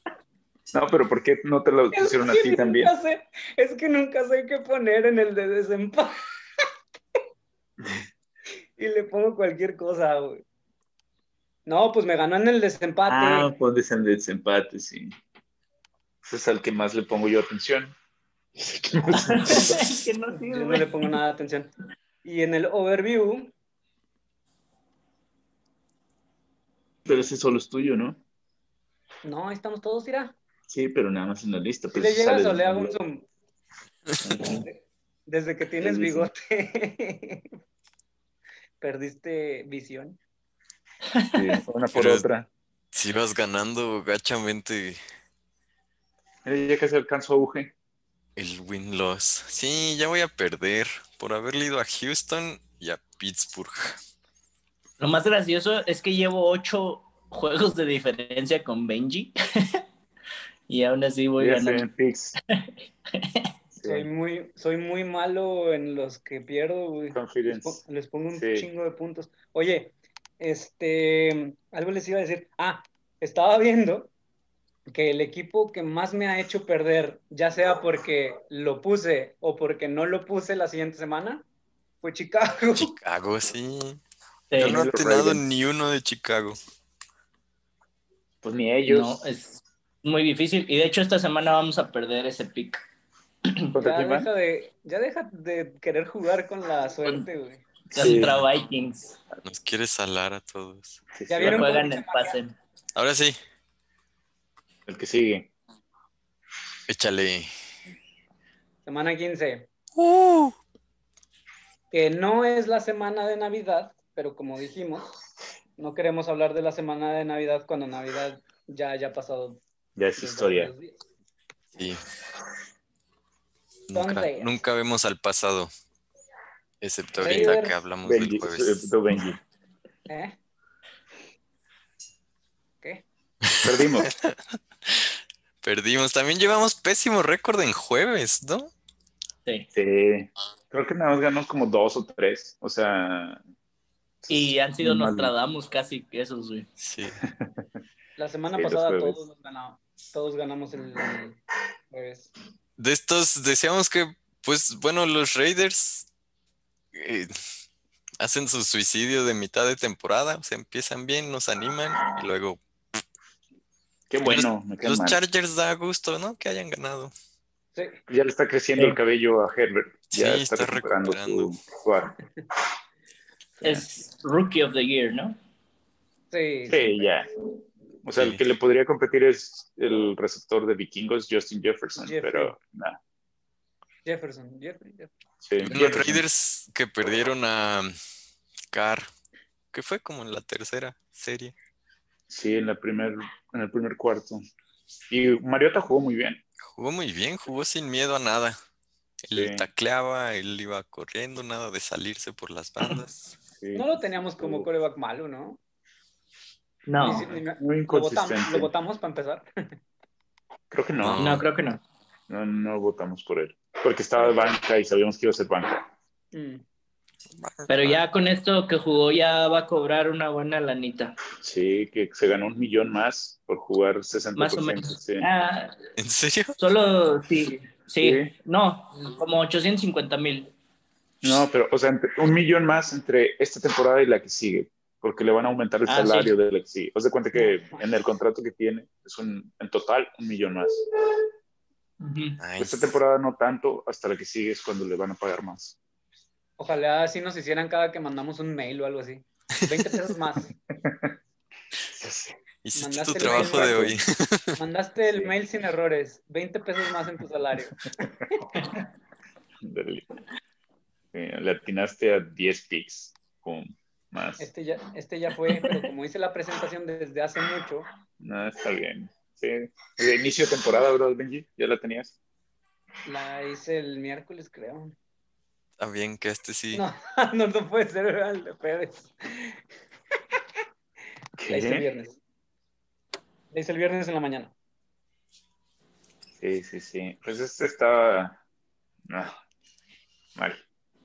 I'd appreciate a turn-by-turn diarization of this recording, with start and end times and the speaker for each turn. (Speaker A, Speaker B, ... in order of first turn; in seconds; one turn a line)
Speaker A: 0.7-2.9
Speaker B: 1.9-6.2
Speaker B: 8.8-10.4
Speaker B: 11.7-13.5
Speaker A: 13.1-15.1
Speaker A: 16.2-17.9
Speaker A: 18.6-19.9
Speaker C: 19.2-21.0
Speaker B: 20.4-21.7
Speaker B: 22.2-23.5
Speaker A: 27.0-28.2
Speaker B: 29.2-30.3
Speaker A: 30.7-33.0
Speaker B: 31.9-33.3
Speaker A: 34.3-34.6
Speaker B: 34.5-37.5
Speaker A: 35.8-36.3
Speaker B: 38.8-40.2
Speaker C: 41.1-41.6
Speaker A: 41.3-42.5
Speaker D: 41.9-42.2
Speaker D: 42.9-45.0
Speaker A: 46.4-47.7
Speaker D: 48.4-54.0
Speaker C: 55.0-59.8
Speaker C: 60.7-61.9
Speaker A: 61.4-62.4
Speaker C: 62.5-63.5
Speaker A: 63.8-64.1
Speaker B: 63.8-74.1
Speaker A: 67.1-67.8
Speaker A: 68.3-68.7
Speaker B: 74.9-81.4
Speaker B: 82.0-83.0
Speaker D: 82.8-84.0
Speaker C: 84.5-84.8
Speaker A: 84.6-85.4
Speaker D: 84.6-86.6
Speaker A: 88.4-89.2
Speaker C: 88.8-92.8
Speaker A: 93.7-94.3
Speaker B: 93.8-97.6
Speaker C: 97.9-99.2
Speaker A: 97.9-98.5
Speaker D: 99.4-101.0
Speaker A: 101.1-101.8
Speaker B: 101.3-102.4
Speaker C: 101.4-102.5
Speaker D: 103.0-103.4
Speaker A: 104.9-105.5
Speaker D: 106.9-107.5
Speaker B: 108.8-109.7
Speaker D: 110.0-110.5
Speaker B: 111.9-115.1
Speaker B: 115.8-119.6
Speaker A: 120.0-120.7
Speaker B: 120.2-121.0
Speaker D: 121.7-122.0
Speaker D: 123.9-125.7
Speaker B: 123.9-124.5
Speaker D: 126.8-128.9
Speaker B: 127.2-127.8
Speaker A: 128.0-129.4
Speaker B: 130.1-130.4
Speaker D: 133.4-135.1
Speaker A: 133.6-134.1
Speaker D: 135.6-138.7
Speaker A: 139.7-143.4
Speaker A: 144.2-145.3
Speaker C: 144.3-146.7
Speaker D: 146.8-147.2
Speaker A: 147.2-147.7
Speaker B: 148.2-151.4
Speaker A: 148.5-149.2
Speaker B: 151.9-152.3
Speaker D: 152.8-156.1
Speaker D: 156.9-157.3
Speaker D: 158.2-162.6
Speaker A: 164.1-165.2
Speaker D: 164.2-167.1
Speaker A: 168.1-172.1
Speaker D: 170.1-171.5
Speaker C: 173.6-175.4
Speaker B: 176.3-177.1
Speaker A: 176.7-177.3
Speaker A: 178.0-183.0
Speaker D: 178.1-178.4
Speaker B: 181.9-182.6
Speaker B: 184.0-185.1
Speaker A: 185.4-186.2
Speaker D: 185.6-187.9
Speaker D: 188.7-189.1
Speaker D: 189.7-191.5
Speaker A: 192.3-194.4
Speaker A: 195.1-196.4
Speaker D: 196.6-198.6
Speaker D: 199.2-203.3
Speaker A: 199.3-199.7
Speaker A: 203.6-204.7
Speaker B: 203.7-205.6
Speaker C: 206.9-207.3
Speaker B: 207.0-209.5
Speaker A: 207.6-208.7
Speaker A: 210.7-211.3
Speaker D: 211.0-211.4
Speaker C: 211.1-211.8
Speaker A: 212.3-215.8
Speaker B: 214.2-214.5
Speaker B: 216.3-216.6
Speaker D: 217.3-218.0
Speaker C: 217.7-221.2
Speaker A: 221.4-225.3
Speaker C: 224.3-225.8
Speaker D: 226.0-226.6
Speaker C: 226.6-230.5
Speaker A: 228.0-228.3
Speaker A: 231.2-240.8
Speaker C: 235.9-236.3
Speaker B: 237.3-237.8
Speaker C: 242.0-242.4
Speaker D: 242.4-243.0
Speaker A: 242.6-245.8
Speaker B: 246.6-250.6
Speaker A: 250.8-251.1
Speaker A: 251.9-252.4
Speaker D: 252.6-254.6
Speaker B: 252.7-253.9
Speaker A: 253.2-254.0
Speaker B: 254.6-258.5
Speaker A: 255.1-255.3
Speaker A: 259.6-260.1
Speaker A: 261.1-264.5
Speaker B: 264.4-267.9
Speaker A: 268.2-272.1
Speaker B: 273.0-274.9
Speaker D: 275.8-276.8
Speaker B: 276.7-279.6
Speaker A: 281.4-281.9
Speaker B: 281.5-282.2
Speaker B: 283.5-284.5
Speaker A: 286.4-288.4
Speaker A: 289.1-289.3
Speaker A: 290.4-290.6